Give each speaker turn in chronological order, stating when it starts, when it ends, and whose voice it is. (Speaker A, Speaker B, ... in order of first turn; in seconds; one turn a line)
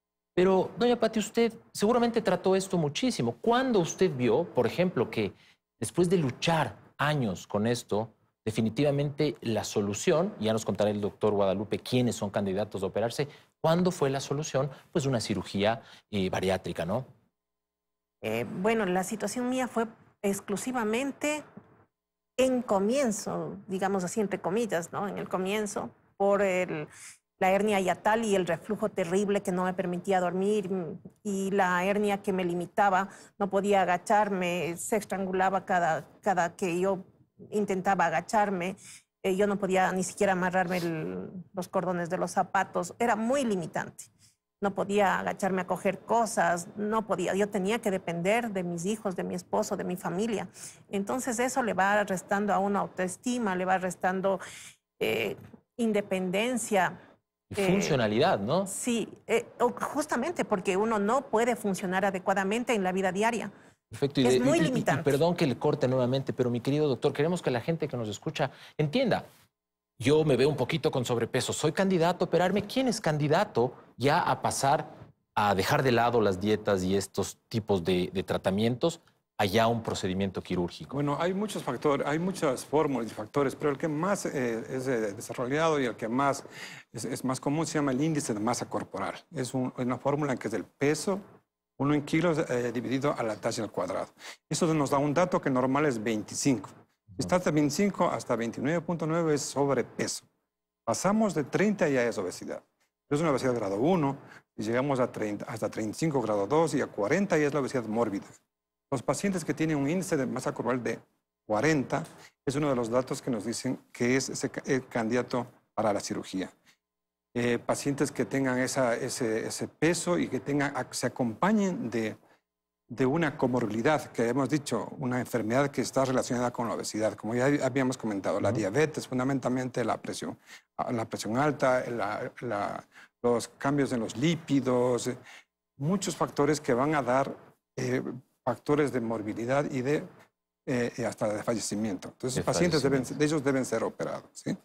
Speaker A: 0.4-17.1
Speaker B: 18.2-21.4
Speaker B: 22.4-44.1
Speaker B: 44.6-54.4
Speaker B: 55.0-57.0
Speaker A: 57.5-58.7
Speaker B: 57.6-58.0
Speaker B: 58.7-63.5
Speaker A: 63.9-69.2
Speaker B: 64.2-65.1
Speaker A: 70.0-81.0
Speaker C: 80.9-91.2
Speaker C: 91.8-100.2
Speaker C: 100.9-108.4
Speaker C: 108.9-116.5
Speaker C: 117.3-122.2
Speaker C: 122.9-135.2
Speaker C: 135.8-140.1
Speaker C: 140.7-144.6
Speaker A: 142.3-143.1